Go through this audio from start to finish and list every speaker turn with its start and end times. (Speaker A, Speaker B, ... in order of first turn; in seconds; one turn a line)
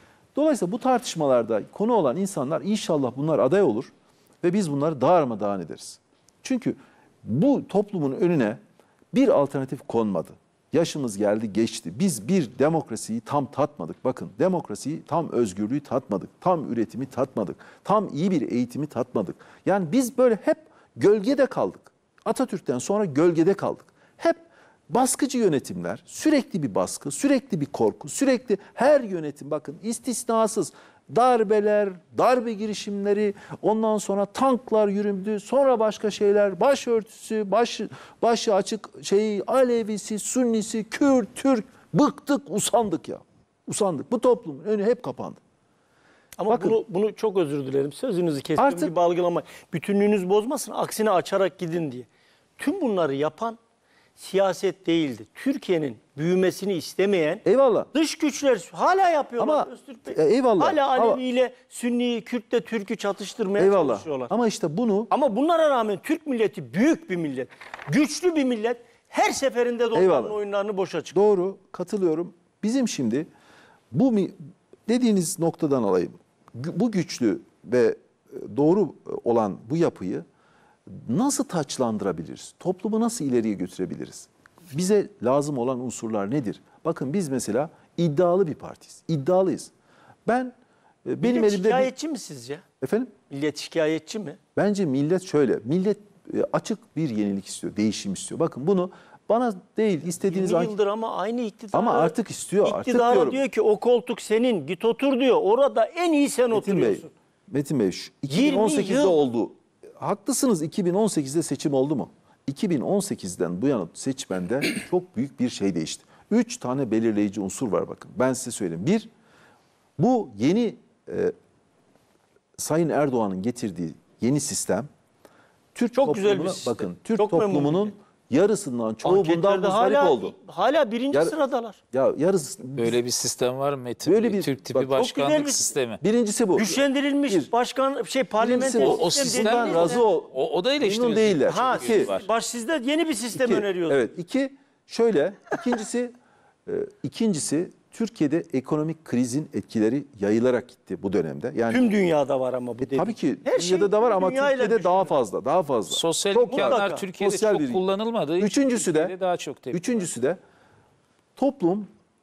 Speaker A: 0.3-8.6
Speaker A: 9.1-45.4
Speaker B: 46.4-52.1
Speaker A: 46.5-46.8
Speaker A: 48.6-48.9
Speaker B: 52.6-53.6
Speaker B: 54.2-64.3
Speaker A: 57.5-57.9
Speaker A: 59.4-61.2
Speaker A: 63.6-65.1
Speaker B: 65.1-71.1
Speaker A: 69.9-70.4
Speaker A: 71.1-73.3
Speaker A: 73.9-74.4
Speaker A: 74.9-80.2
Speaker A: 80.9-89.7
Speaker A: 90.3-90.5
Speaker A: 91.0-91.9
Speaker B: 91.2-92.6
Speaker A: 92.8-93.1
Speaker B: 93.3-94.4
Speaker A: 94.6-100.7
Speaker B: 100.3-107.1
Speaker A: 101.7-103.4
Speaker A: 106.5-119.1
Speaker B: 108.3-109.2
Speaker A: 120.0-121.3
Speaker A: 122.6-124.9
Speaker A: 125.8-130.3
Speaker B: 126.0-127.9
Speaker B: 129.0-131.8
Speaker A: 131.9-133.0
Speaker C: 132.8-136.0
Speaker A: 134.0-135.0
Speaker B: 135.0-135.8
Speaker A: 136.0-137.5
Speaker B: 136.6-140.0
Speaker A: 138.4-142.1
Speaker C: 138.6-142.3
Speaker B: 141.5-144.0
Speaker A: 143.3-146.1
Speaker A: 146.7-151.8
Speaker B: 151.7-155.1
Speaker A: 152.8-157.8
Speaker C: 155.9-160.1
Speaker B: 156.5-157.0
Speaker A: 158.4-159.1
Speaker A: 159.7-160.4
Speaker A: 161.4-161.9